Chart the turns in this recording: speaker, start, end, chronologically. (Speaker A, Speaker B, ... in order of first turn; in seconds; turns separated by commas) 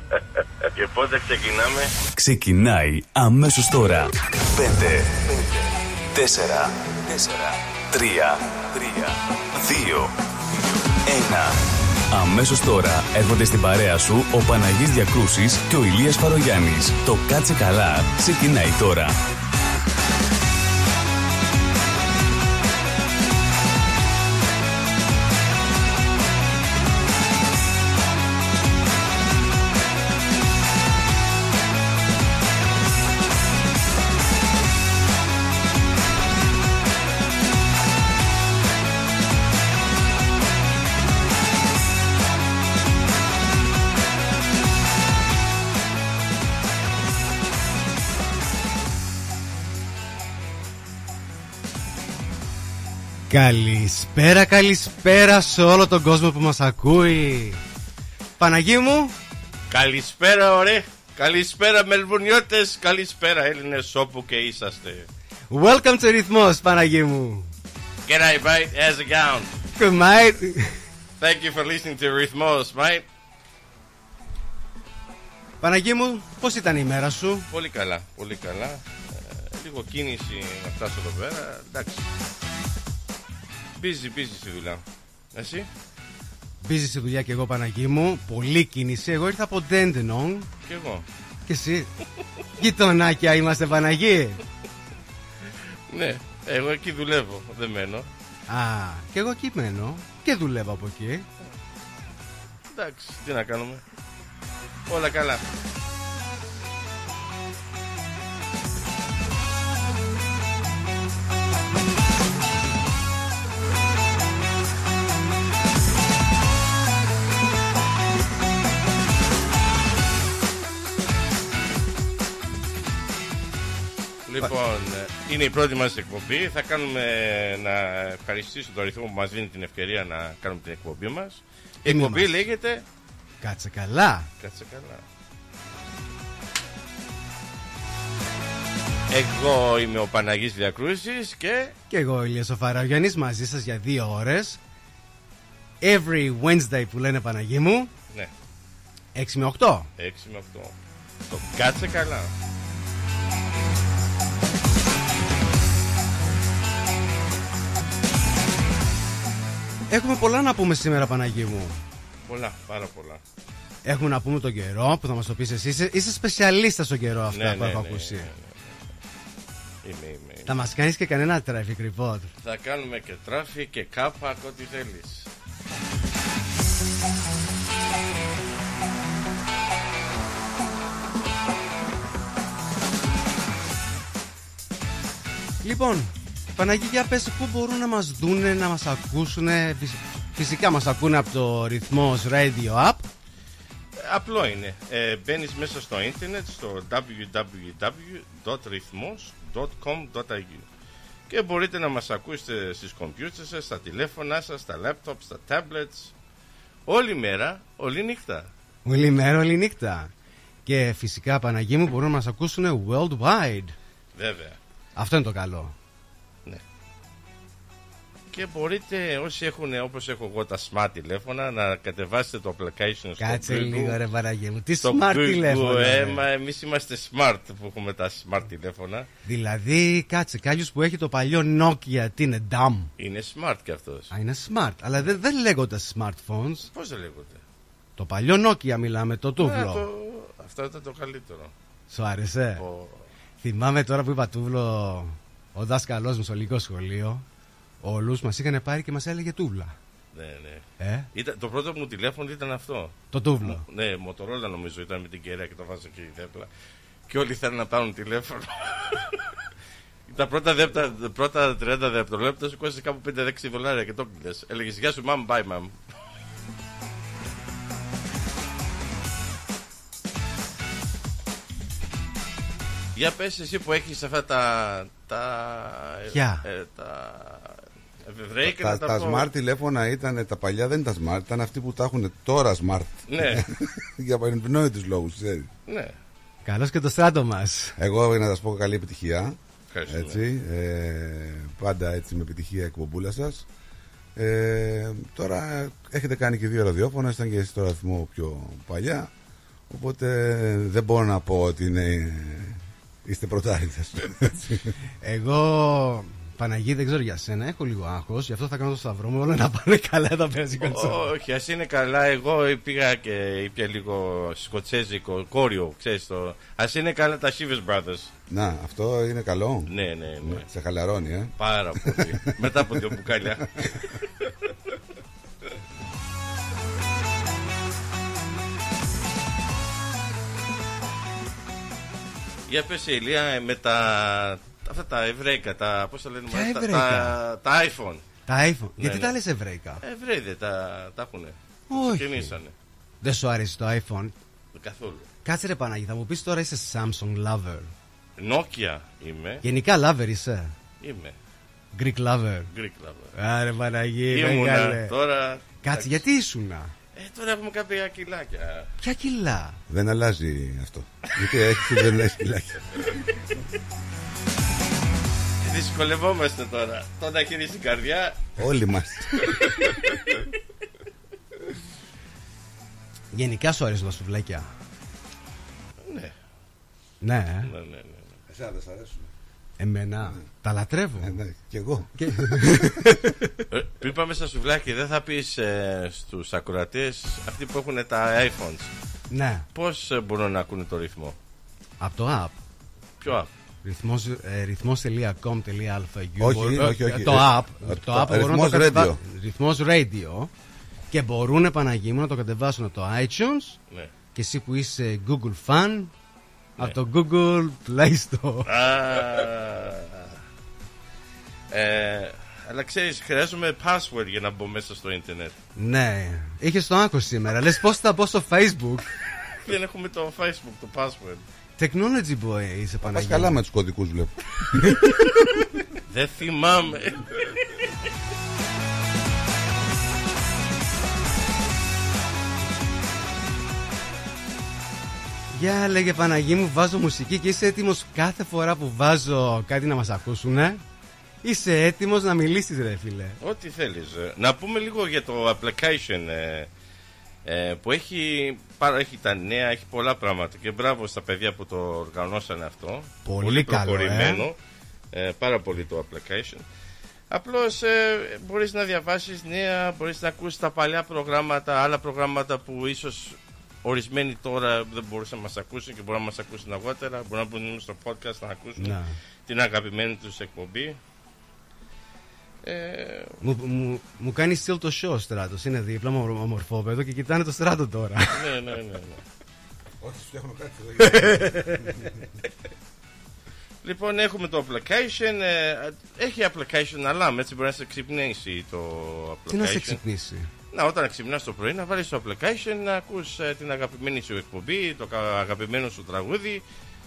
Speaker A: 0.8-1.9, Speaker B: 2.2-5.6, Speaker B: 6.1-10.1, Speaker B: 11.1-11.6, Speaker B: 12.1-19.1, Speaker C: 53.3-57.6, Speaker C: 58.4-59.1, Speaker A: 59.7-65.1, Speaker C: 65.5-67.5, Speaker A: 68.1-69.6, Speaker C: 69.8-70.7, Speaker A: 71.2-73.1, Speaker C: 75.6-77.5, Speaker A: 77.5-82.1, Speaker A: 83.8-85.7, Speaker C: 86.6-90.5, Speaker A: 90.6-91.1, Speaker C: 91.5-91.9, Speaker C: 92.6-94.4, Speaker A: 95.9-98.1, Speaker C: 98.5-101.3, Speaker A: 102.7-103.8, Speaker A: 104.9-105.4, Speaker A: 124.3-132.8, Speaker C: 131.9-132.4, Speaker C: 133.4-134.3, Speaker A: 134.4-135.1, Speaker A: 139.1-141.8, Speaker C: 141.9-144.6, Speaker C: 145.8-147.9, Speaker C: 149.2-149.9, Speaker A: 150.0-150.8, Speaker A: 151.3-152.3, Speaker C: 159.9-161.8, Speaker A: 162.2-163.2, Speaker C: 163.8-168.3, Speaker A: 167.3-168.7, Speaker A: 169.8-170.6, Speaker C: 170.5-172.3, Speaker A: 172.4-175.3, Speaker C: 185.6-193.0, Speaker A: 194.0-200.7, Speaker A: 201.3-206.1, Speaker A: 206.9-208.5, Speaker C: 208.8-210.1, Speaker C: 210.7-213.8, Speaker A: 214.2-214.6, Speaker C: 215.0-215.7, Speaker A: 218.3-224.0, Speaker C: 223.2-226.2, Speaker A: 224.8-229.1, Speaker C: 229.3-232.9, Speaker A: 233.0-234.1, Speaker C: 234.1-236.7, Speaker A: 236.7-237.4, Speaker C: 238.0-239.8, Speaker A: 239.4-241.5, Speaker C: 241.9-242.6, Speaker A: 242.6-243.1, Speaker C: 243.4-247.2, Speaker C: 247.8-249.8, Speaker A: 250.1-256.5, Speaker C: 250.8-251.1, Speaker C: 253.1-253.6, Speaker A: 257.1-259.3, Speaker A: 260.1-265.8, Speaker A: 272.9-279.3, Speaker C: 276.1-276.4, Speaker D: 278.4-285.5, Speaker A: 283.1-283.4, Speaker A: 285.7-285.9, Speaker C: 286.4-287.8, Speaker D: 287.8-289.4, Speaker A: 289.7-290.2, Speaker D: 289.9-293.4, Speaker D: 294.2-299.1, Speaker D: 299.7-304.7, Speaker C: 305.0-311.1, Speaker A: 310.6-318.1, Speaker D: 318.3-322.1, Speaker A: 319.7-320.5, Speaker A: 321.4-323.5, Speaker A: 332.5-338.0, Speaker C: 336.3-337.2, Speaker C: 338.3-339.8, Speaker A: 338.8-339.1, Speaker A: 339.8-342.5, Speaker C: 341.7-342.4, Speaker C: 343.0-344.1, Speaker A: 344.5-345.1, Speaker C: 345.2-347.7, Speaker A: 348.2-349.4, Speaker C: 349.4-350.6, Speaker A: 350.8-351.2, Speaker C: 351.7-352.5, Speaker A: 352.5-353.1, Speaker C: 353.1-354.9, Speaker A: 354.1-356.1, Speaker C: 355.6-356.7, Speaker A: 356.9-358.7, Speaker C: 358.8-359.6, Speaker D: 359.7-363.2, Speaker A: 365.4-368.2, Speaker D: 368.4-369.5, Speaker C: 373.1-374.5, Speaker A: 375.8-376.1, Speaker C: 377.0-377.5, Speaker A: 377.4-378.1, Speaker D: 378.3-379.1, Speaker C: 379.6-381.1, Speaker D: 381.0-382.6, Speaker C: 382.0-383.4, Speaker A: 383.5-388.7, Speaker C: 389.1-389.5, Speaker A: 389.5-391.2, Speaker C: 391.8-392.4, Speaker A: 393.0-393.3, Speaker C: 393.6-400.3, Speaker D: 396.2-399.0, Speaker C: 400.9-403.6, Speaker C: 404.1-405.9, Speaker C: 406.6-408.5, Speaker A: 408.5-410.2, Speaker A: 411.5-415.4, Speaker C: 415.6-418.9, Speaker A: 419.4-421.2, Speaker C: 421.6-423.4, Speaker D: 422.9-425.0, Speaker A: 425.9-427.7, Speaker C: 435.3-440.6, Speaker C: 441.2-443.2, Speaker A: 443.2-446.5, Speaker A: 447.2-454.4, Speaker C: 453.1-454.3, Speaker A: 454.9-456.4, Speaker A: 457.1-470.8, Speaker C: 468.6-469.0, Speaker A: 472.4-473.2, Speaker C: 473.2-478.4, Speaker A: 478.1-479.0, Speaker D: 479.8-481.7, Speaker C: 480.9-481.7, Speaker A: 483.6-489.8, Speaker C: 489.3-490.3, Speaker A: 490.5-496.4